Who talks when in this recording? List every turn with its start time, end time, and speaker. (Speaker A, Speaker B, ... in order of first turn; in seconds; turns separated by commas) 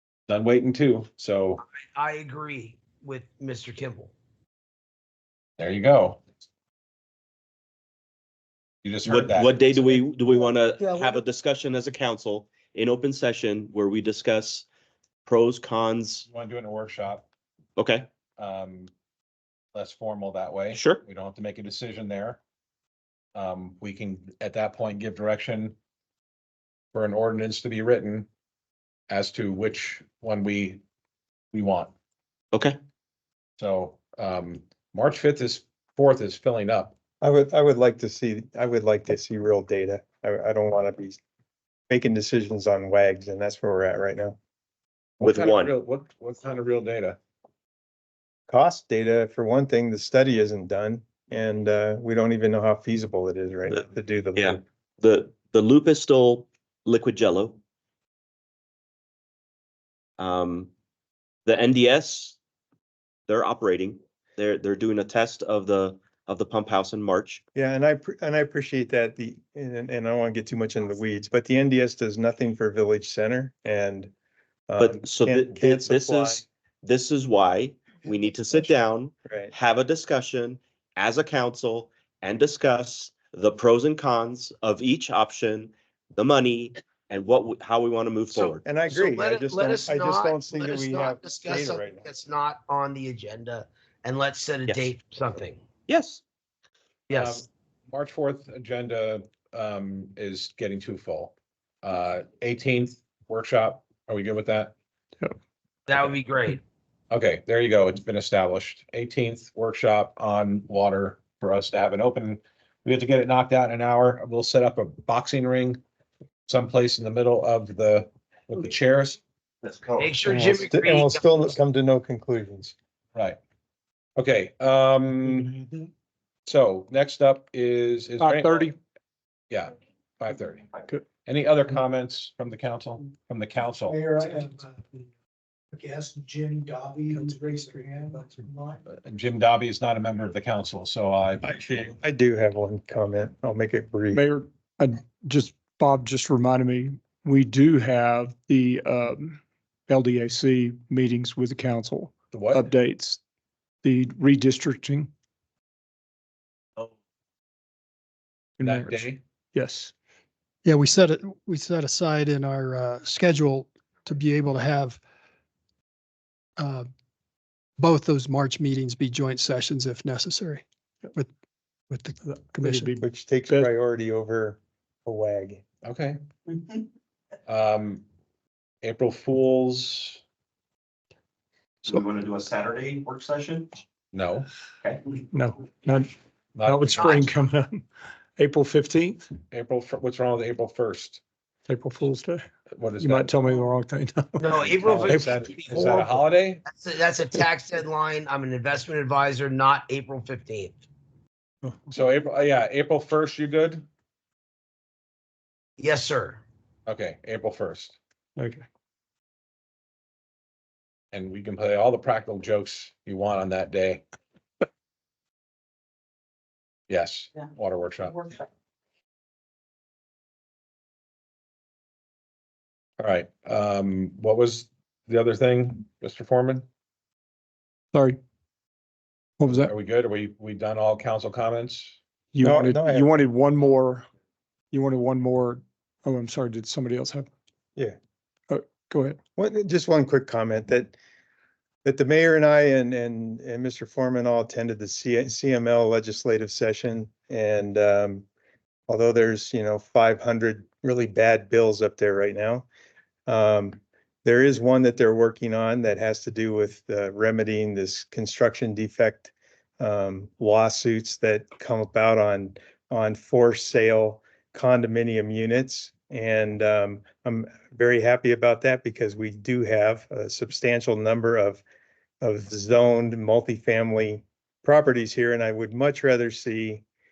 Speaker A: 0.3-1.6, Speaker B: 1.9-4.1, Speaker A: 5.6-6.2, Speaker A: 8.8-9.8, Speaker C: 9.1-14.7, Speaker C: 15.3-16.3, Speaker A: 16.3-17.2, Speaker C: 17.8-18.1, Speaker A: 18.4-18.9, Speaker A: 19.7-22.4, Speaker C: 20.7-21.0, Speaker A: 23.4-25.8, Speaker A: 26.9-28.3, Speaker A: 29.1-30.8, Speaker A: 31.5-31.9, Speaker C: 32.5-32.8, Speaker A: 33.6-36.9, Speaker D: 37.2-41.2, Speaker D: 41.9-44.4, Speaker A: 45.2-47.2, Speaker C: 45.2-45.7, Speaker D: 48.5-54.6, Speaker C: 54.4-57.6, Speaker C: 60.2-60.7, Speaker C: 61.5-62.4, Speaker C: 63.3-67.4, Speaker D: 67.5-74.1, Speaker D: 74.7-76.4, Speaker C: 74.8-88.6, Speaker D: 79.3-79.5, Speaker B: 88.3-95.6, Speaker D: 88.6-92.0, Speaker C: 94.7-94.9, Speaker C: 95.9-96.2, Speaker B: 97.1-97.4, Speaker A: 97.1-104.7, Speaker B: 105.9-106.6, Speaker A: 107.1-115.8, Speaker A: 116.5-119.2, Speaker C: 119.6-120.1, Speaker B: 120.0-121.5, Speaker D: 120.2-122.7, Speaker A: 124.2-125.6, Speaker A: 126.5-128.7, Speaker E: 128.2-128.8, Speaker A: 129.5-130.7, Speaker A: 131.2-134.0, Speaker E: 133.9-134.6, Speaker F: 135.8-138.4, Speaker E: 135.9-136.3, Speaker E: 137.1-138.7, Speaker A: 138.9-141.9, Speaker D: 141.4-144.2, Speaker E: 144.1-153.2, Speaker A: 152.3-152.7, Speaker E: 153.8-155.1, Speaker E: 158.6-159.9, Speaker A: 158.6-159.2, Speaker G: 160.7-165.0, Speaker G: 166.6-166.9, Speaker G: 167.8-171.3, Speaker G: 171.9-172.9, Speaker E: 172.2-173.7, Speaker D: 173.0-175.6, Speaker A: 175.8-176.2, Speaker A: 177.5-178.0, Speaker A: 178.8-180.2, Speaker C: 181.8-183.7, Speaker A: 184.1-184.5, Speaker E: 185.3-186.1, Speaker A: 186.6-187.2, Speaker E: 186.6-187.8, Speaker B: 186.9-187.3, Speaker E: 188.4-189.2, Speaker A: 189.5-191.2, Speaker E: 191.7-192.4, Speaker A: 192.7-193.6, Speaker E: 193.0-196.1, Speaker B: 194.4-200.8, Speaker A: 194.7-196.6, Speaker A: 201.9-203.8, Speaker B: 205.8-206.4, Speaker A: 206.9-208.0, Speaker E: 208.4-208.6, Speaker A: 211.1-214.0, Speaker A: 216.9-218.3, Speaker A: 223.0-226.7, Speaker E: 227.9-228.2, Speaker E: 229.4-229.7, Speaker A: 229.5-232.0, Speaker E: 232.3-234.1, Speaker D: 232.4-233.1, Speaker E: 234.7-237.3, Speaker E: 238.5-239.2, Speaker D: 239.4-240.9, Speaker D: 241.8-248.2, Speaker D: 248.9-252.7, Speaker D: 253.3-271.6, Speaker D: 272.2-276.8